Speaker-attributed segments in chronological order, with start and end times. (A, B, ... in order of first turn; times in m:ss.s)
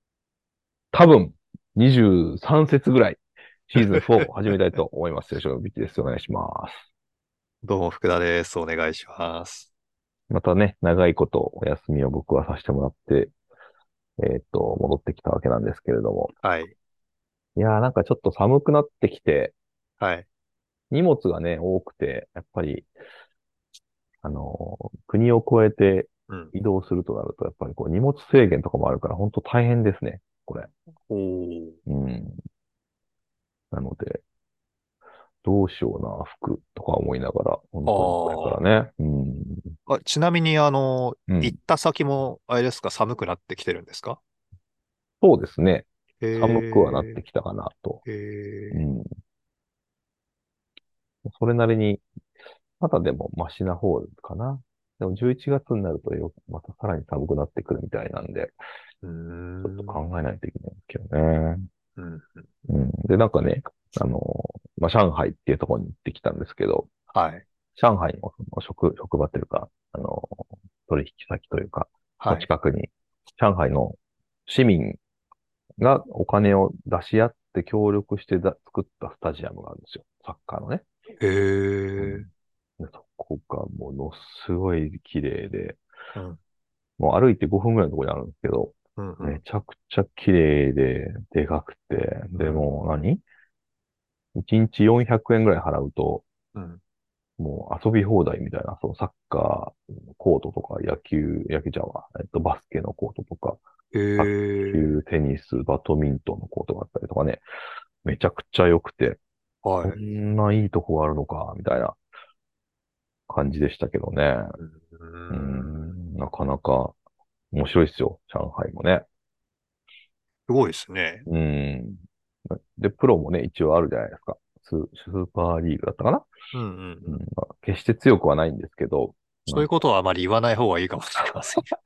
0:00.9-0:06.8 A
0:07.6-0:09.7 B
0:10.3-0:13.3 A
0:14.2-0:16.3 A
0:16.4-0:16.7 B
0:17.6-0:19.6 A
0:20.0-0:20.3 B
0:20.9-0:22.9 A
0:24.2-0:30.7 A
0:31.1-0:31.8 B
0:31.9-0:32.4 A
0:33.7-0:34.2 A
0:35.4-0:39.8 A
0:37.9-0:38.6 B
0:39.9-0:44.2 B
0:41.3-0:41.6 A
0:45.2-0:48.0 A
0:46.2-0:47.2 B
0:48.1-0:48.8 B
0:48.7-0:49.1 A
0:51.3-0:52.0 A
0:52.8-0:58.5 A
0:59.0-1:00.0 B
0:59.6-1:01.7 A
1:02.0-1:02.5 B
1:02.7-1:06.9 A
1:07.1-1:07.4 B
1:07.8-1:15.0 A
1:12.2-1:12.5 B
1:15.8-1:20.8 A
1:21.2-1:22.3 B
1:22.0-1:22.3 A
1:22.8-1:25.8 A
1:27.0-1:33.2 A
1:29.0-1:29.4 B
1:32.4-1:32.7 B
1:34.4-1:36.2 A
1:36.6-1:36.8 B
1:37.4-1:43.6 A
1:43.9-1:45.0 B
1:44.2-1:47.4 A
1:48.0-1:49.2 A
1:49.6-1:50.0 B
1:49.8-1:52.0 A
1:53.3-1:54.6 A
1:54.6-1:55.9 B
1:55.3-1:57.0 A
1:57.5-1:59.0 A
2:00.5-2:01.3 B
2:01.3-2:06.3 A
2:06.5-2:07.2 B
2:07.1-2:09.7 A
2:09.5-2:11.7 B